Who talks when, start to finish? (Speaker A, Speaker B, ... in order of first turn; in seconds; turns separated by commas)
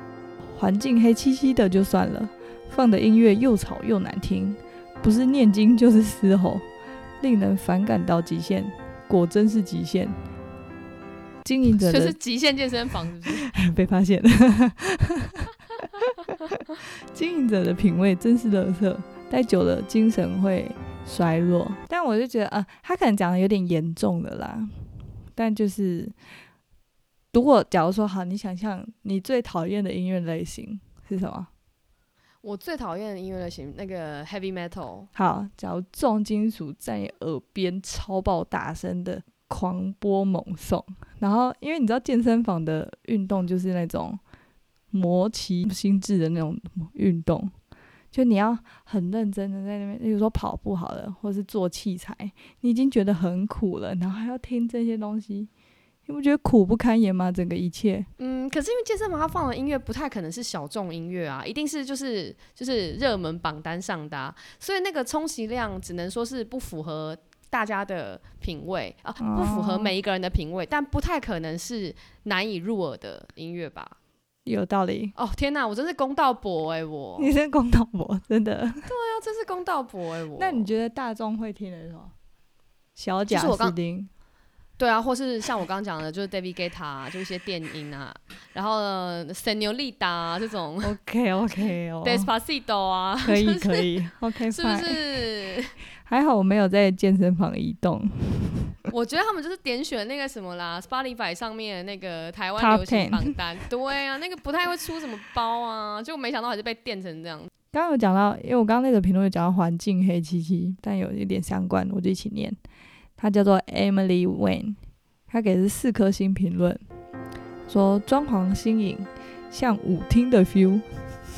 Speaker A: 0.5-6.7, Speaker A: 7.2-10.2, Speaker A: 11.4-12.1, Speaker B: 11.8-13.5, Speaker A: 13.2-24.7, Speaker A: 25.3-26.1, Speaker A: 27.3-31.5, Speaker B: 32.4-35.1, Speaker A: 35.1-44.2, Speaker A: 44.9-47.5, Speaker A: 48.1-55.5, Speaker A: 56.1-58.1, Speaker B: 58.2-74.0, Speaker A: 69.2-69.9, Speaker A: 74.5-75.1, Speaker B: 75.2-77.3, Speaker A: 77.2-78.9, Speaker B: 78.8-80.7, Speaker A: 80.4-82.1, Speaker A: 83.0-84.1, Speaker B: 83.3-83.8, Speaker B: 84.8-90.9, Speaker A: 90.8-92.3, Speaker B: 92.0-95.8, Speaker A: 93.2-95.2, Speaker A: 96.0-98.8, Speaker B: 98.9-107.5, Speaker A: 102.6-103.4, Speaker A: 107.7-112.6, Speaker A: 113.2-114.8, Speaker A: 115.3-116.8, Speaker A: 117.7-120.8